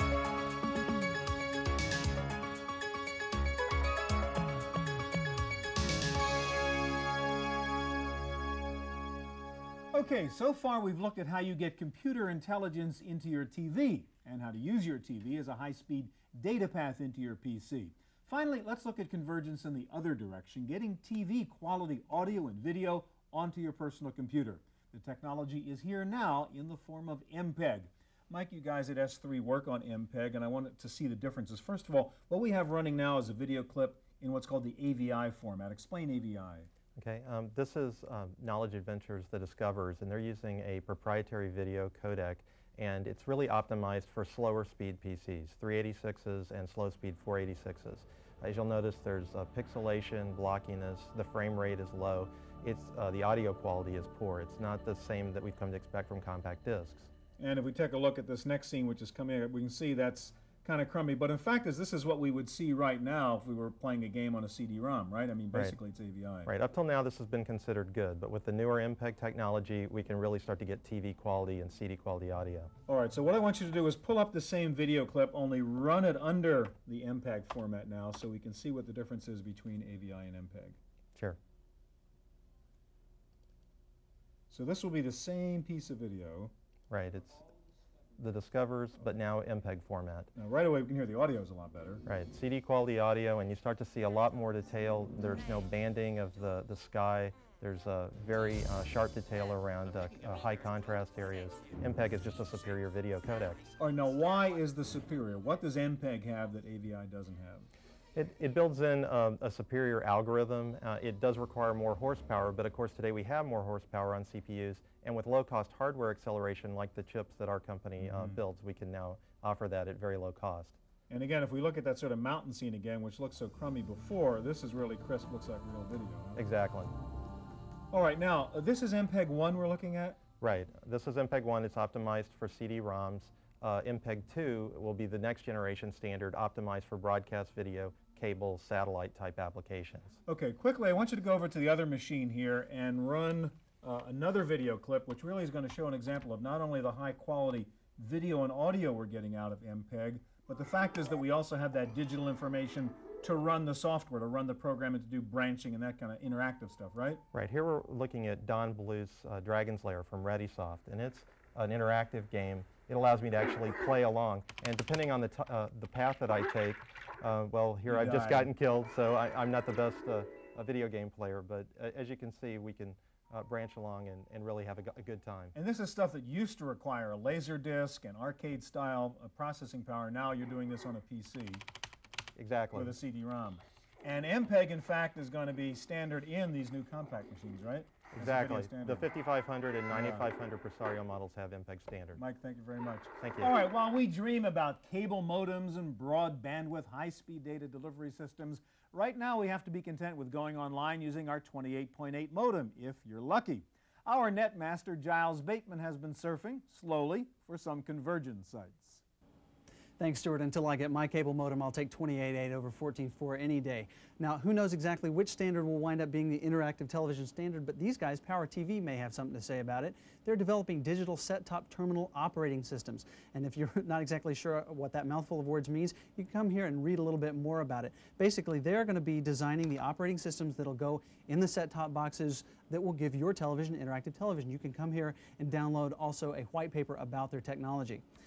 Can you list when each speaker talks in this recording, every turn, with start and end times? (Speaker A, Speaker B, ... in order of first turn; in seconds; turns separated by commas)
Speaker A: 9.9-36.7, Speaker B: 37.0-57.1, Speaker A: 57.4-66.5, Speaker B: 66.5-72.7, Speaker A: 72.9-80.8, Speaker A: 84.5-86.5, Speaker B: 86.9-87.5, Speaker B: 88.2-90.3, Speaker A: 90.4-92.0, Speaker B: 92.1-103.6, Speaker A: 103.8-107.7, Speaker B: 108.2-120.8, Speaker A: 118.0-118.4, Speaker A: 121.1-126.4, Speaker B: 126.4-126.9, Speaker A: 127.9-130.2, Speaker B: 130.4-140.2, Speaker A: 140.3-157.2, Speaker B: 157.3-175.5, Speaker A: 167.9-168.5, Speaker A: 175.6-181.6, Speaker B: 182.4-182.9, Speaker A: 182.7-189.1, Speaker B: 188.2-192.2, Speaker A: 189.9-190.3, Speaker A: 192.2-209.0, Speaker B: 193.2-193.6, Speaker C: 210.0-238.0